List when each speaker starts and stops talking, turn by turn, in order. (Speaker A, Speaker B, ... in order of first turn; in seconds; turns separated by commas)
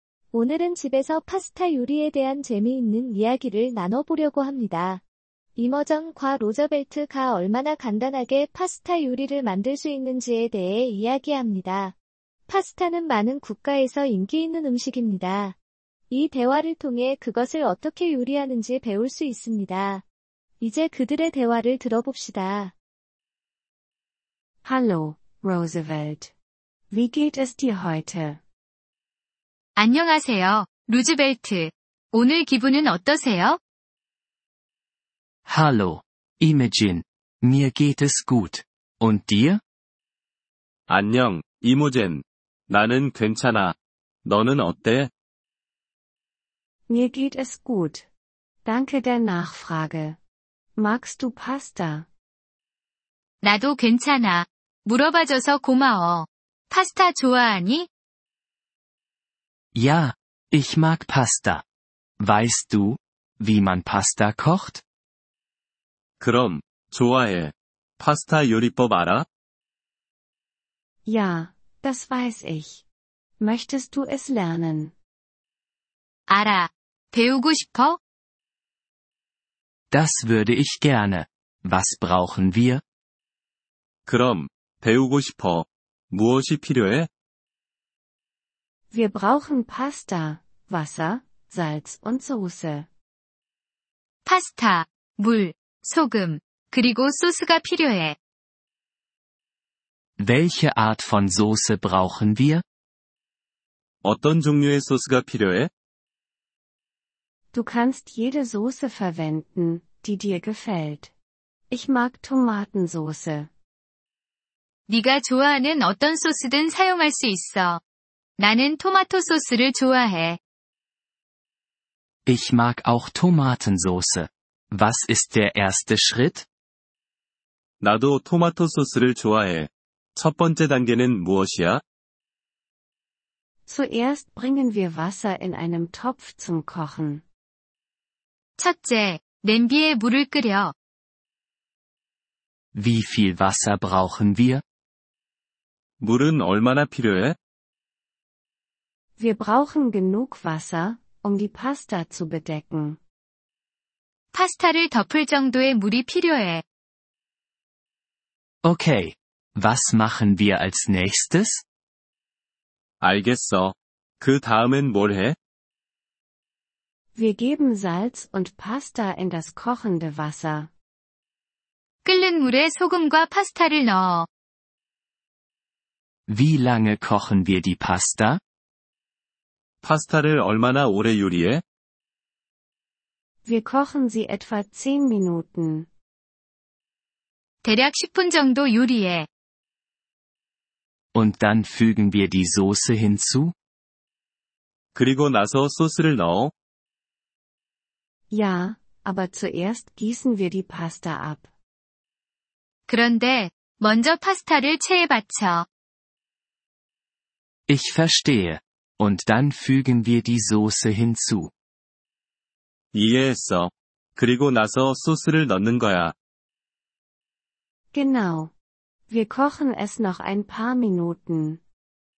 Speaker A: 0.3-5.0, Speaker A: 5.6-11.9, Speaker A: 12.5-15.6, Speaker A: 16.1-20.1, Speaker A: 20.6-22.8, Speaker B: 24.6-26.3, Speaker B: 26.9-28.4, Speaker C: 29.8-33.6, Speaker D: 35.5-39.6, Speaker E: 40.9-45.1, Speaker B: 46.9-48.1, Speaker B: 48.6-50.2, Speaker B: 50.8-52.1, Speaker C: 53.4-57.9, Speaker D: 59.7-61.6, Speaker D: 62.2-64.8, Speaker E: 66.2-69.3, Speaker B: 71.1-72.8, Speaker B: 73.4-74.9, Speaker C: 76.3-78.0, Speaker D: 79.9-82.8, Speaker E: 84.1-87.1, Speaker B: 88.9-92.9, Speaker C: 94.2-98.2, Speaker D: 100.2-102.6, Speaker E: 104.0-105.7, Speaker B: 107.5-111.1, Speaker B: 111.7-113.5, Speaker C: 114.9-117.8, Speaker C: 118.4-120.4, Speaker D: 122.2-126.5, Speaker E: 127.8-131.8, Speaker B: 133.7-137.2, Speaker C: 138.6-140.7, Speaker D: 142.7-144.6, Speaker E: 146.0-147.4, Speaker B: 149.2-153.0, Speaker C: 154.3-156.6, Speaker D: 158.6-161.6, Speaker E: 163.0-165.4, Speaker B: 167.2-170.7, Speaker C: 172.0-174.3, Speaker D: 176.3-178.4, Speaker E: 179.8-181.6, Speaker B: 183.4-185.9, Speaker C: 187.6-189.3, Speaker D: 191.1-193.5, Speaker E: 194.9-196.5, Speaker B: 198.3-201.5, Speaker C: 202.9-205.7, Speaker D: 207.7-211.5, Speaker E: 212.9-216.2, Speaker B: 217.9-218.5, Speaker B: 219.1-221.6